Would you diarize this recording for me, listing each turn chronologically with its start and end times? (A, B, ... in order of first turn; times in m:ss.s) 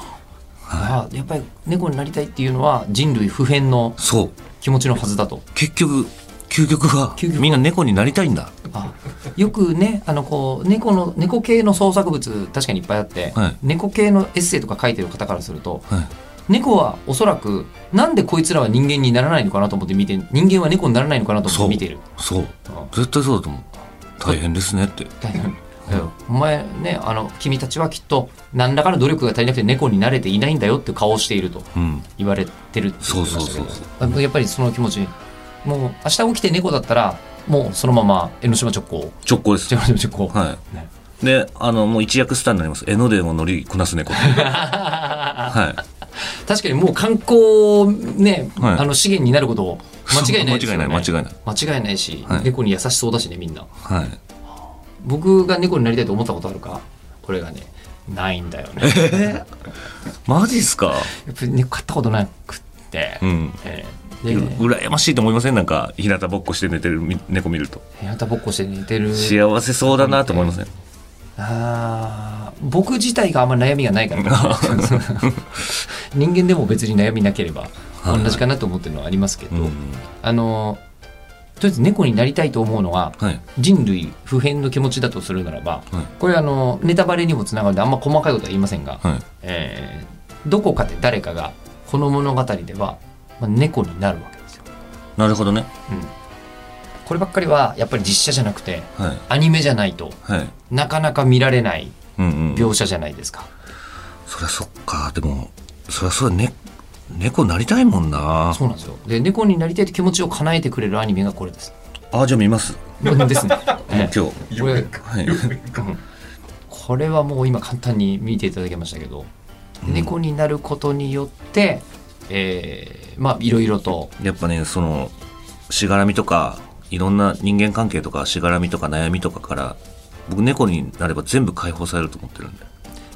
0:00.7-0:01.0 A
0:00.7-0:04.0 B
0:04.0-0:04.3 A
0:04.6-0:05.4 B
0:05.5-0:08.5 A
0:07.2-0:07.6 B
0:08.7-0:15.9 B
0:16.5-0:22.0 B
0:21.5-0:23.7 A
0:24.2-0:25.1 A
0:25.2-0:35.1 B
0:31.7-0:32.1 A
0:33.0-0:33.9 A
0:35.6-0:40.9 B
0:39.2-0:39.7 A
0:40.3-0:40.6 A
0:41.2-0:44.7 A
0:44.1-0:45.6 B
0:45.5-0:45.8 A
0:46.2-0:53.7 B
0:48.6-0:48.8 A
0:50.1-0:51.3 A
0:53.8-0:54.2 A
0:55.0-0:59.4 B
0:58.8-0:59.4 A
1:00.2-1:01.1 A
1:01.1-1:04.7 B
1:03.2-1:03.6 A
1:04.2-1:07.8 A
1:08.0-1:10.6 B
1:09.1-1:10.7 A
1:11.4-1:20.8 B
1:14.2-1:15.4 A
1:18.0-1:18.4 A
1:19.5-1:20.0 A
1:21.6-1:34.6 B
1:35.2-1:35.7 A
1:35.9-1:36.1 B
1:37.0-1:40.2 B
1:39.0-1:39.2 A
1:40.2-1:40.5 A
1:40.7-1:42.0 B
1:42.2-1:42.7 A
1:42.5-1:43.5 B
1:44.3-1:46.5 A
1:47.1-1:48.6 A
1:48.5-1:51.7 B
1:52.1-1:52.9 A
1:53.0-1:56.0 B
1:53.8-1:55.6 A
1:56.7-1:59.3 B
1:59.8-2:00.1 A
1:59.8-2:04.1 B
2:04.2-2:05.1 A
2:05.7-2:12.6 A